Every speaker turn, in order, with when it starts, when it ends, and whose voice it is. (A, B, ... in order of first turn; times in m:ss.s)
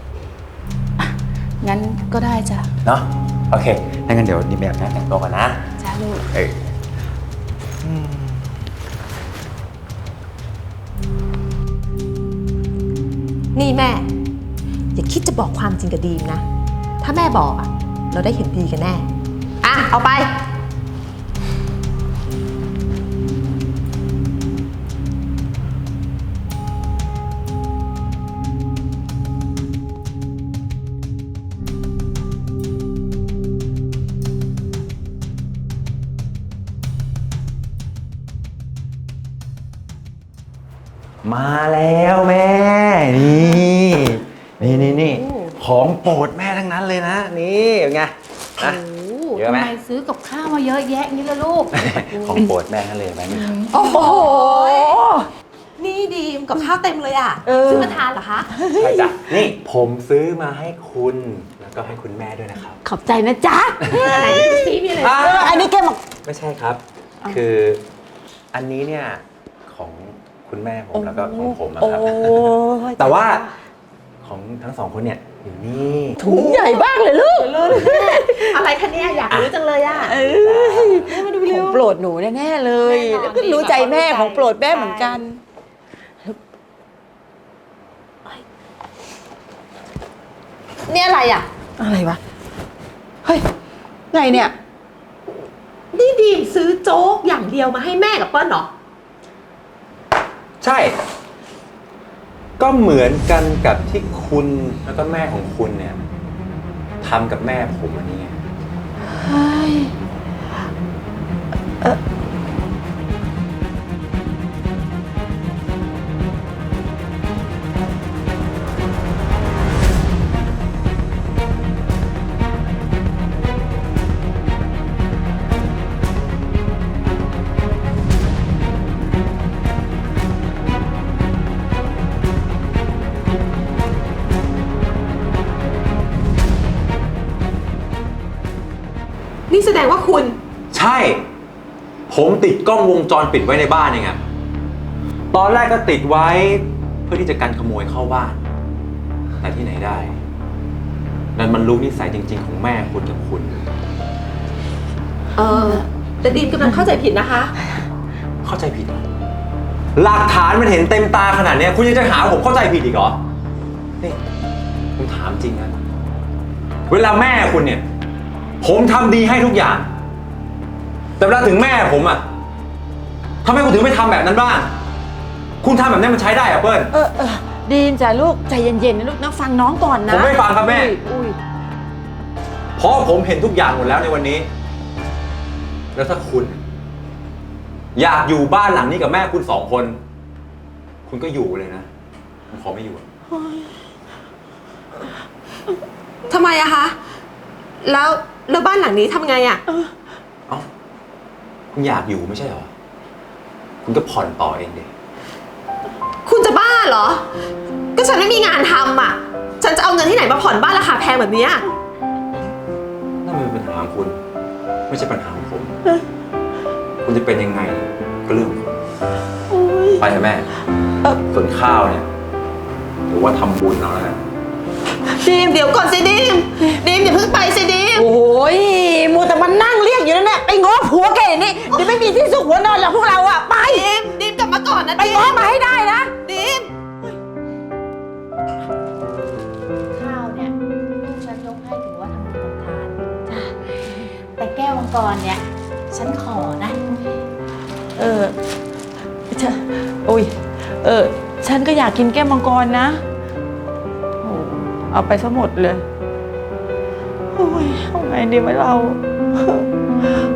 0:01.0-0:02.7 A
0:02.8-0:05.6 B
0:05.8-0:06.2 A
0:07.8-0:08.5 B
0:13.6-0:14.1 C
0:15.0-0:16.4 C
0:17.0-0:19.1 C
0:19.6-0:20.4 C
0:41.2-0:48.8 B
0:44.6-0:45.6 C
0:48.8-0:51.7 A
0:49.4-0:49.7 B
0:51.7-0:53.6 B
0:52.1-0:52.4 C
0:53.3-0:53.9 A
0:53.7-0:55.3 D
0:53.7-0:55.0 C
0:55.8-0:58.5 C
0:57.4-0:58.0 D
0:58.5-0:59.1 D
0:58.7-1:02.8 B
1:02.8-1:06.0 D
1:03.9-1:05.7 C
1:05.0-1:05.6 B
1:06.2-1:07.8 B
1:08.5-1:13.5 B
1:10.9-1:13.4 D
1:14.2-1:16.2 B
1:16.2-1:18.6 D
1:16.2-1:16.8 C
1:17.4-1:20.2 C
1:20.0-1:25.4 D
1:20.0-1:21.0 B
1:20.9-1:21.8 C
1:22.8-1:25.2 C
1:30.9-1:31.5 C
1:31.8-1:32.2 D
1:34.1-1:34.6 D
1:35.9-1:38.7 C
1:40.6-1:41.0 B
1:42.6-1:46.0 B
1:47.0-1:48.4 B
1:49.2-1:49.9 D
2:19.5-2:20.4 C
2:20.7-2:21.2 B
2:22.1-2:24.2 B
2:25.3-2:28.4 B
2:29.4-2:30.2 B
2:31.4-2:33.7 B
2:35.4-2:37.5 C
2:38.4-2:39.0 B
2:40.0-2:43.2 B
2:45.0-2:45.8 B
2:46.9-2:47.8 B
2:48.6-2:49.9 B
2:51.2-2:52.2 B
2:53.4-2:54.7 B
2:55.6-2:56.9 B
2:56.9-3:01.4 D
3:00.1-3:00.9 B
3:02.8-3:04.5 B
3:06.0-3:06.6 B
3:08.0-3:10.0 B
3:11.1-3:11.9 B
3:12.5-3:13.0 B
3:16.3-3:17.0 C
3:17.8-3:19.6 C
3:21.7-3:22.7 B
3:23.8-3:24.9 B
3:26.2-3:27.3 C
3:28.0-3:31.7 C
3:33.2-3:34.2 B
3:34.9-3:35.8 B
3:37.0-3:38.8 B
3:39.5-3:40.0 D
3:40.0-3:40.5 B
3:41.2-3:42.1 B
3:43.1-3:44.2 B
3:45.1-3:48.1 C
3:48.0-3:53.9 D
3:51.7-3:52.0 C
3:53.6-3:55.5 C
3:55.0-3:56.1 D
3:56.2-3:56.7 C
3:59.9-4:07.2 A
4:08.0-4:08.4 D
4:09.3-4:13.0 D
4:14.2-4:15.8 D
4:17.3-4:19.7 D